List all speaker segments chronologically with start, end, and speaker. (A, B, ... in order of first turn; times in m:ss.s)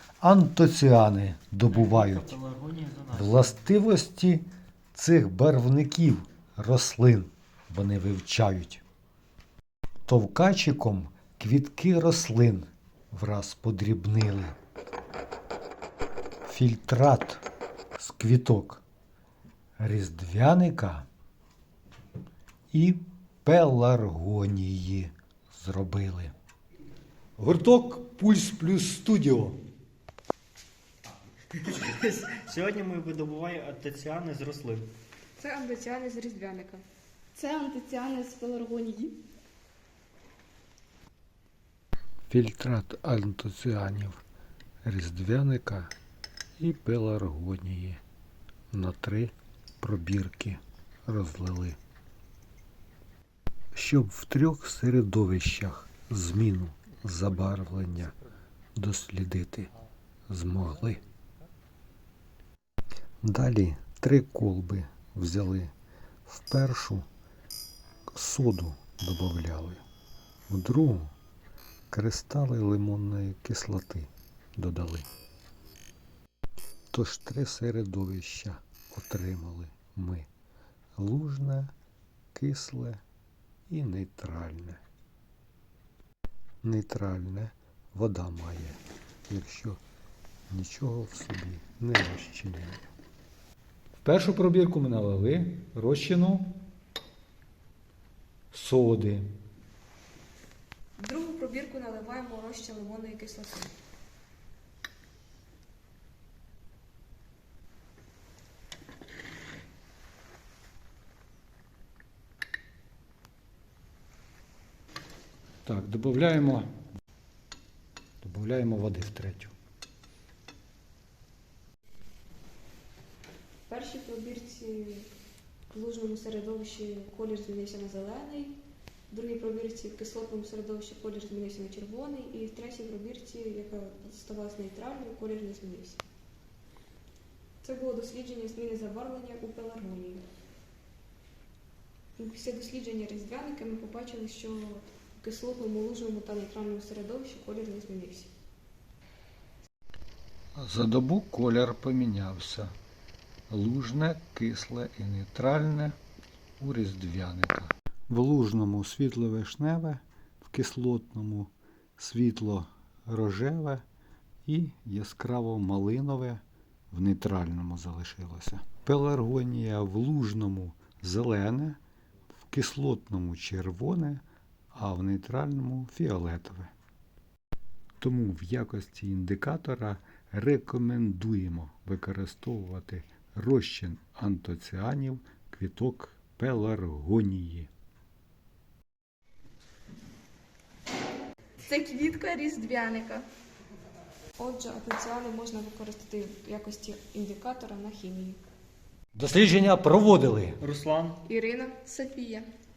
0:00.2-0:02.4 A
0:01.7-0:03.5 B
0:03.1-0:08.8 A
0:10.1-0:14.6 A
0:16.4-0:17.4 A
0:18.0-0:18.8 A
0:19.8-0:21.1 A
0:22.7-0:26.3 A
0:27.4-0:29.6 A
0:31.5-0:34.9 B
0:35.4-0:36.8 C
0:37.4-0:39.1 D
0:37.4-0:38.1 C
0:42.3-0:44.2 A
0:44.8-0:45.9 A
0:46.6-0:48.0 A
0:48.7-0:51.8 A
0:53.7-0:58.2 A
0:58.8-0:59.7 A
1:00.3-1:01.0 A
1:03.2-1:05.7 A
1:06.3-1:07.1 A
1:08.1-1:09.8 A
1:10.5-1:11.2 A
1:11.9-1:15.1 A
1:16.9-1:20.3 A
1:21.0-1:21.7 A
1:22.4-1:23.0 A
1:23.7-1:24.8 A
1:26.6-1:29.8 A
1:30.5-1:32.8 A
1:34.0-1:36.6 A
1:38.5-1:39.3 A
1:41.0-1:43.7 C
1:55.6-1:56.7 A
1:58.2-1:59.5 A
2:03.7-2:05.1 C
2:05.7-2:08.6 C
2:09.1-2:16.0 C
2:17.6-2:20.2 C
2:22.2-2:28.3 C
2:30.6-2:32.7 A
2:33.5-2:36.0 A
2:36.6-2:43.8 A
2:44.5-2:51.8 A
2:52.5-2:56.7 A
2:58.0-3:07.7 A
3:11.7-3:13.1 D
3:11.7-3:12.5 C
3:14.4-3:18.4 C
3:19.1-3:20.6 A
3:20.6-3:21.2 B
3:21.2-3:22.5 C